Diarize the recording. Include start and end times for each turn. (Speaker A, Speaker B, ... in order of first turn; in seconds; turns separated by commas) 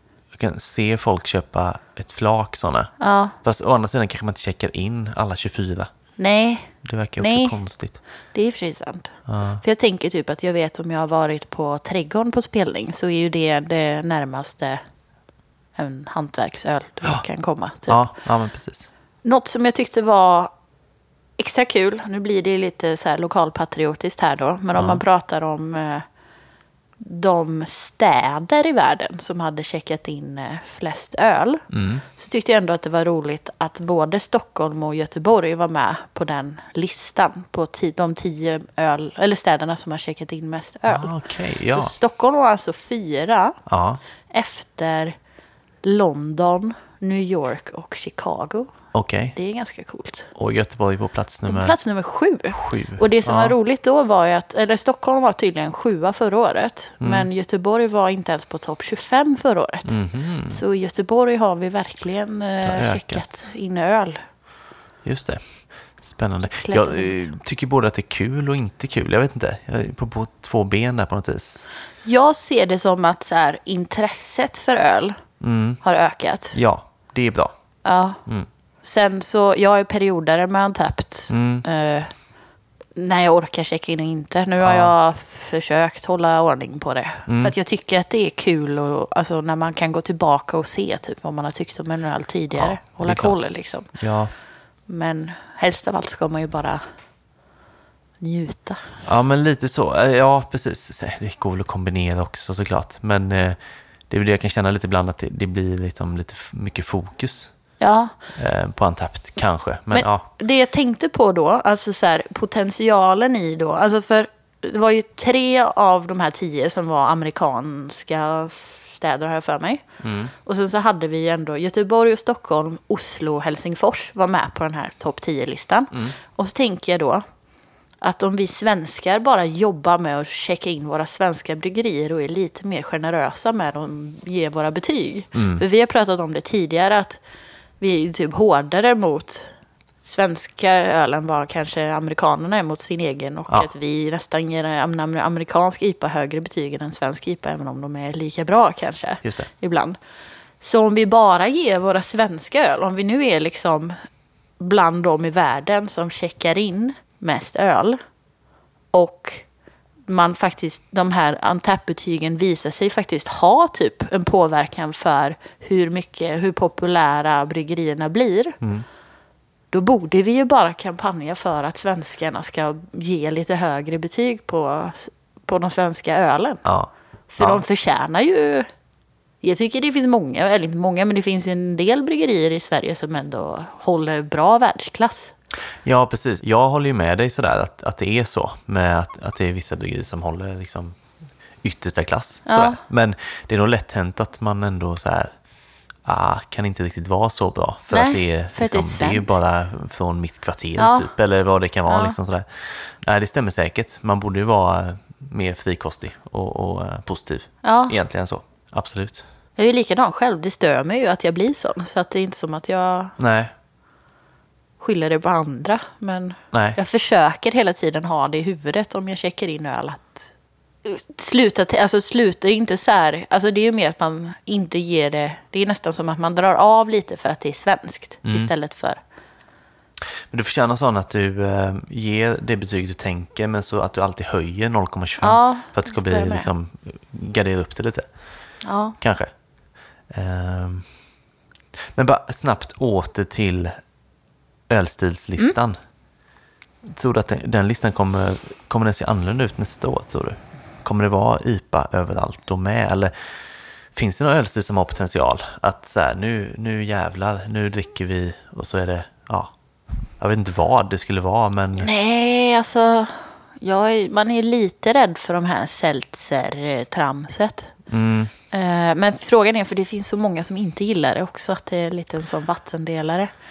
Speaker A: 0.3-2.9, Speaker B: 3.0-3.4, Speaker A: 3.4-5.9, Speaker B: 6.2-7.6, Speaker A: 6.8-8.0, Speaker B: 8.3-14.8, Speaker A: 9.3-9.6, Speaker B: 15.8-18.0, Speaker A: 17.9-18.9, Speaker B: 19.2-20.5, Speaker B: 21.4-26.1, Speaker A: 24.8-25.0, Speaker B: 27.0-41.1, Speaker A: 31.7-32.0, Speaker A: 40.9-41.9, Speaker B: 41.7-43.6, Speaker A: 43.7-44.0, Speaker B: 44.3-45.1, Speaker B: 45.8-48.7, Speaker A: 48.9-49.4, Speaker B: 49.3-50.3, Speaker A: 50.4-51.8, Speaker B: 51.5-60.0, Speaker A: 52.5-53.5, Speaker A: 57.0-57.3, Speaker A: 59.9-60.6, Speaker B: 60.5-64.2, Speaker A: 62.6-63.2, Speaker A: 65.0-65.4, Speaker A: 66.0-71.7, Speaker B: 66.6-67.2, Speaker B: 72.0-75.2, Speaker A: 75.4-75.8, Speaker B: 75.8-76.6, Speaker A: 76.5-77.5, Speaker B: 77.8-78.2, Speaker B: 78.8-82.1, Speaker A: 81.3-81.7, Speaker B: 83.0-93.9, Speaker A: 84.6-84.9, Speaker A: 87.3-87.5, Speaker A: 92.5-94.3, Speaker B: 94.9-96.8, Speaker B: 98.2-99.0, Speaker A: 99.0-103.6, Speaker A: 104.1-107.5, Speaker B: 107.8-108.1, Speaker A: 108.4-110.3, Speaker B: 109.9-119.8, Speaker A: 120.0-120.3, Speaker B: 120.4-127.2, Speaker B: 128.0-137.2, Speaker A: 135.3-135.6, Speaker B: 137.8-139.5, Speaker B: 140.0-150.0, Speaker B: 150.6-154.0, Speaker B: 154.6-158.0, Speaker B: 158.9-159.5, Speaker B: 160.1-168.6, Speaker A: 168.6-168.9, Speaker B: 169.7-176.6, Speaker A: 176.7-177.6, Speaker B: 177.3-178.7, Speaker B: 179.4-185.3, Speaker A: 185.8-191.0, Speaker A: 191.6-195.3, Speaker B: 192.5-192.8, Speaker A: 196.1-209.2, Speaker B: 197.9-199.4, Speaker B: 200.8-201.1, Speaker B: 201.9-202.2, Speaker B: 207.6-207.9, Speaker B: 209.6-213.2, Speaker A: 213.2-213.5, Speaker B: 214.8-220.3, Speaker A: 216.5-216.8, Speaker B: 220.8-229.0, Speaker A: 228.2-228.5, Speaker A: 230.3-238.1, Speaker B: 235.2-236.5, Speaker B: 238.6-239.0, Speaker A: 239.0-239.3, Speaker A: 240.1-240.9, Speaker A: 241.9-243.7, Speaker A: 244.7-245.8, Speaker A: 246.8-253.1, Speaker A: 253.9-259.5, Speaker A: 260.2-261.9, Speaker B: 261.8-267.7, Speaker A: 267.9-268.3, Speaker B: 268.5-273.3